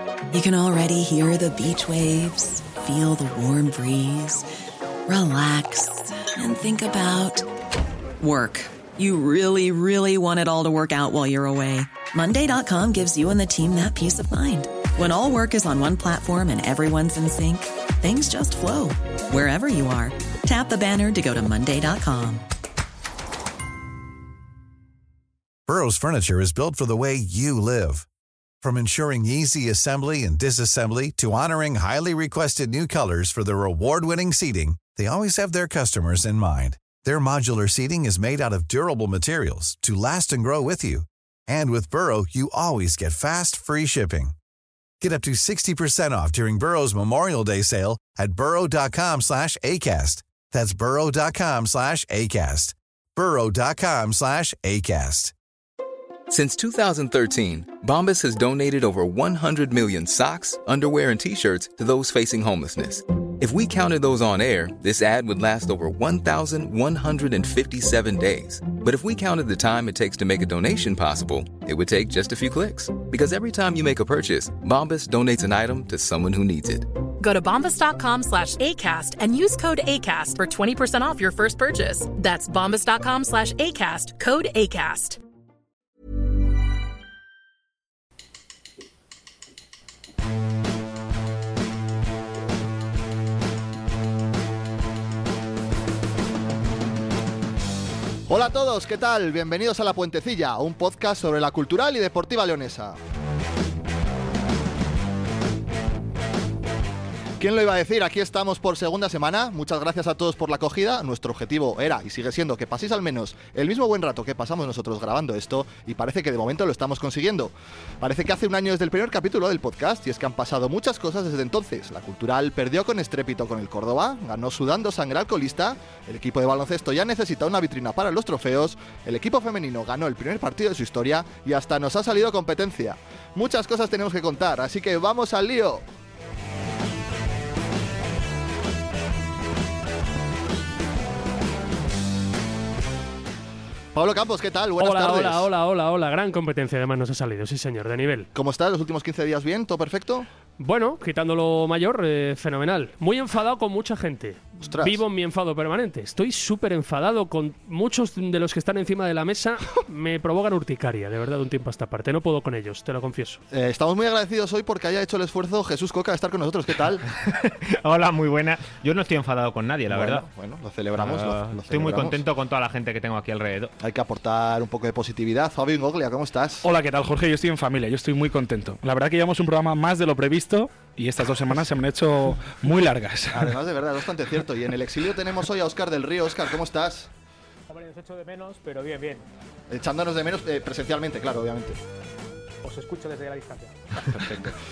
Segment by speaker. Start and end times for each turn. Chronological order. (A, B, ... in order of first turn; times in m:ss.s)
0:00.3-0:04.5 A
0:05.1-0:07.4 A
0:08.2-0:22.4 A
0:25.7-0:28.1 B
0:28.6-0:44.3 B
0:45.0-0:55.3 B
0:56.3-1:16.9 C
1:17.2-1:25.2 D
1:38.3-1:43.0 E
1:47.4-2:15.8 E
2:23.9-2:25.5 E
2:24.8-2:28.3 F
2:28.3-2:30.3 E
2:30.6-2:43.4 F
2:34.6-2:35.0 E
2:43.5-2:47.0 E
2:47.2-2:50.2 G
2:49.9-2:52.2 E
2:51.0-2:53.7 G
2:53.8-2:56.6 E
2:56.6-3:03.5 H
3:03.3-3:07.1 E
3:07.7-3:09.3 I
3:09.7-3:11.8 E
3:12.6-3:14.0 I